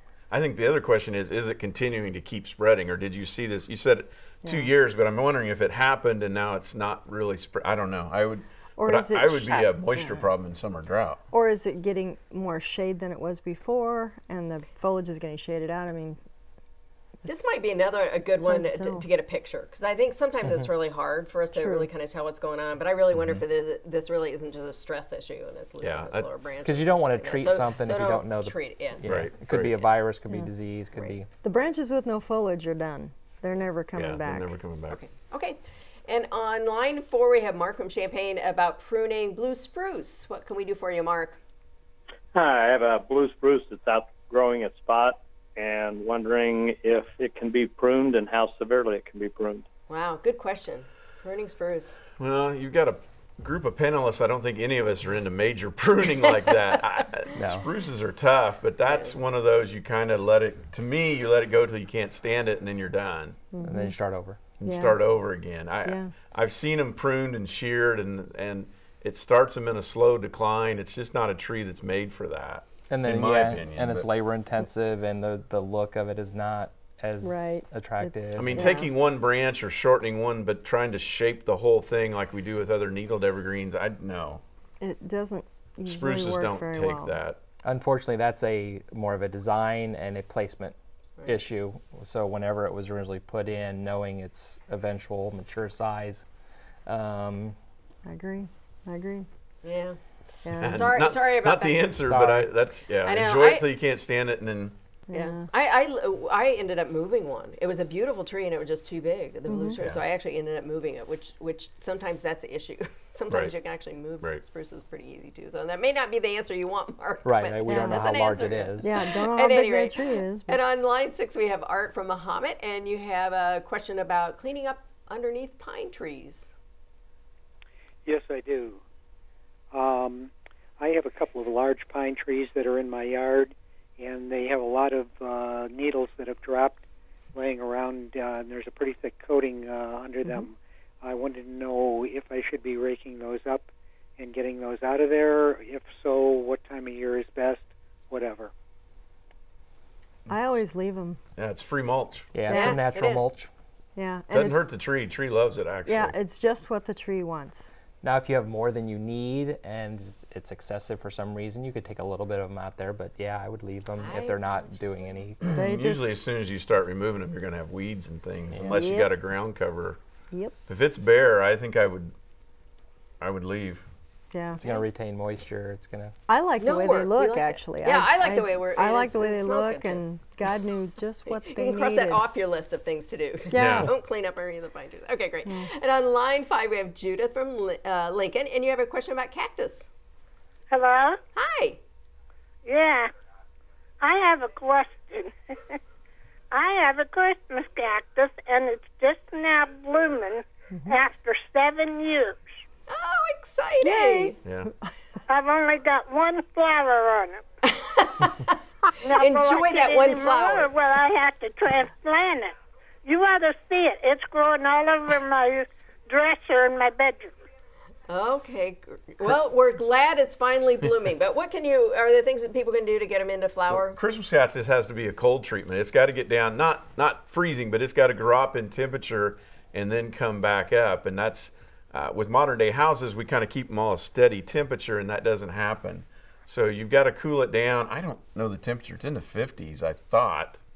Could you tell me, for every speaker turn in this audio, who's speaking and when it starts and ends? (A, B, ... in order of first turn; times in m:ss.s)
0:00.3-0:11.2 A
0:04.4-0:04.7 B
0:08.8-0:10.2 B
0:11.3-0:16.2 B
0:17.2-0:29.0 C
0:18.4-0:19.0 B
0:21.5-0:21.9 B
0:23.2-0:23.4 A
0:25.8-0:26.2 A
0:26.6-0:31.3 D
0:29.0-0:29.8 A
0:31.4-0:34.5 B
0:34.0-0:35.0 A
0:34.9-0:41.4 C
0:42.3-0:49.6 E
0:49.9-0:52.0 C
0:52.2-1:03.4 A
0:57.3-0:57.7 D
0:58.8-0:59.2 C
1:03.5-1:03.9 B
1:03.6-1:04.4 D
1:04.6-1:14.1 A
1:04.6-1:05.0 B
1:05.8-1:06.1 B
1:12.9-1:18.8 D
1:17.2-1:18.9 B
1:18.4-1:24.4 A
1:24.8-1:27.2 B
1:25.9-1:27.4 A
1:27.6-1:36.2 D
1:36.8-1:37.6 D
1:38.0-1:39.3 B
1:39.6-1:42.0 C
1:40.4-1:40.9 B
1:40.6-1:44.8 A
1:42.0-1:42.5 D
1:43.0-1:43.6 C
1:45.1-1:45.4 B
1:45.1-2:06.5 C
1:49.5-1:49.8 B
1:57.2-1:58.9 D
1:57.7-1:58.0 B
1:58.8-2:00.6 B
2:08.0-2:08.8 F
2:09.7-2:16.8 F
2:17.3-2:28.5 F
2:20.2-2:20.5 B
2:30.3-2:30.6 A
2:30.3-2:31.2 B
2:31.4-2:32.3 A
2:32.3-2:33.5 D
2:32.5-2:32.8 B
2:32.5-2:33.3 C
2:34.0-2:34.7 B
2:34.3-2:36.1 A
2:35.8-2:37.7 B
2:38.0-2:45.6 D
2:44.0-2:45.2 C
2:45.4-2:50.0 A
2:45.5-2:46.2 B
2:48.5-2:49.0 D
2:48.6-2:49.1 B
2:50.7-2:52.1 A
2:53.2-2:53.8 A
2:54.3-2:54.6 B
2:54.6-2:56.2 D
2:56.3-3:02.2 B
2:56.6-3:00.0 C
3:01.3-3:09.9 C
3:03.5-3:03.9 B
3:03.5-3:03.9 A
3:10.7-3:11.2 G
3:11.3-3:11.8 C
3:12.6-3:13.1 G
3:14.0-3:15.8 G
3:16.5-3:22.4 G
3:22.9-3:24.4 C
3:23.8-3:24.4 B
3:24.4-3:24.7 A
3:25.3-3:27.4 G
3:27.6-3:28.6 C
3:29.0-3:32.5 G
3:29.1-3:31.3 C
3:33.0-3:37.3 G
3:38.1-3:44.0 C
3:43.7-4:00.6 A